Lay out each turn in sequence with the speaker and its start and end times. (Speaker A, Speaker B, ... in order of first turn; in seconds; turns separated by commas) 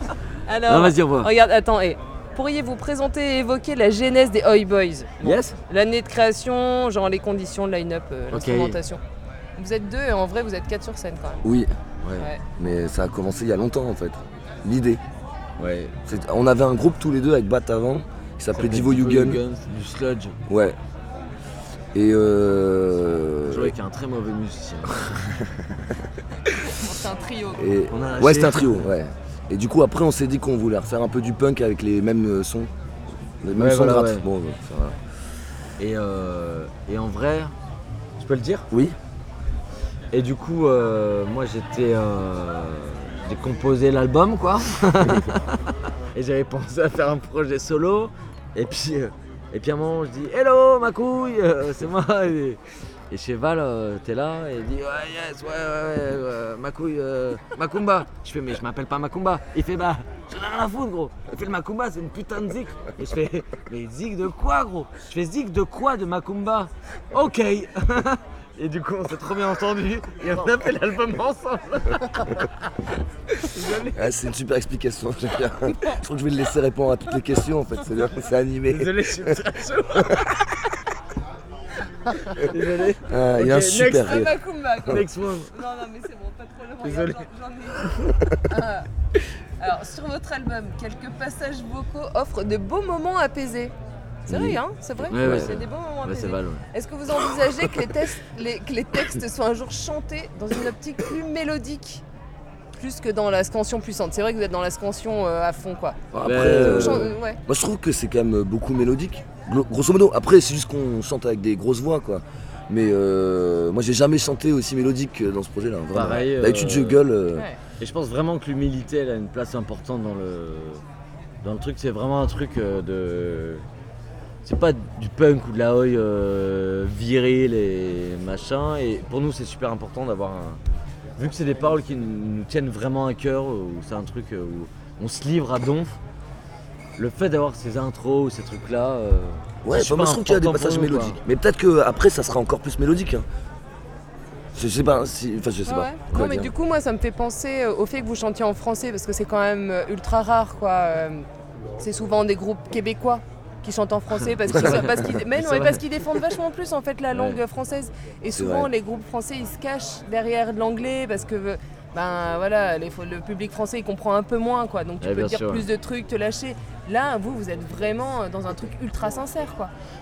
Speaker A: 0.5-9.0, Speaker B: 0.7-1.3, Speaker B: 5.2-5.5, Speaker B: 8.3-8.8, Speaker A: 9.6-11.5, Speaker C: 11.4-11.7, Speaker B: 12.0-12.3, Speaker C: 12.6-15.0, Speaker B: 15.6-15.9, Speaker C: 16.1-19.4, Speaker B: 18.5-20.4, Speaker C: 20.5-20.8, Speaker C: 21.9-23.7, Speaker B: 23.5-25.2, Speaker A: 26.6-27.6, Speaker C: 27.6-32.7, Speaker B: 27.9-28.9, Speaker C: 33.4-35.0, Speaker B: 33.5-34.2, Speaker B: 35.8-37.5, Speaker B: 38.2-38.7, Speaker C: 38.7-39.0, Speaker B: 40.1-45.6, Speaker B: 46.1-52.6, Speaker B: 53.1-72.5, Speaker B: 73.5-73.9, Speaker C: 73.9-79.3, Speaker B: 78.7-80.3, Speaker B: 82.3-84.2, Speaker C: 83.1-84.3, Speaker A: 83.8-88.9, Speaker B: 84.9-85.5, Speaker B: 86.8-87.2, Speaker A: 89.6-93.7, Speaker A: 94.3-102.0, Speaker C: 94.3-94.6, Speaker B: 95.1-96.6, Speaker C: 95.1-95.5, Speaker A: 102.8-106.0, Speaker C: 106.1-117.5, Speaker B: 106.2-107.2, Speaker A: 106.5-107.4, Speaker B: 115.9-117.0, Speaker B: 117.8-120.8, Speaker B: 121.4-123.6, Speaker B: 124.4-130.6, Speaker B: 131.2-136.0, Speaker B: 137.0-141.2, Speaker C: 139.6-143.2, Speaker C: 144.5-146.5, Speaker A: 145.6-151.3, Speaker A: 151.8-169.7, Speaker B: 154.5-155.8, Speaker C: 154.5-155.0, Speaker B: 157.1-157.4, Speaker C: 158.3-158.7, Speaker B: 165.0-165.7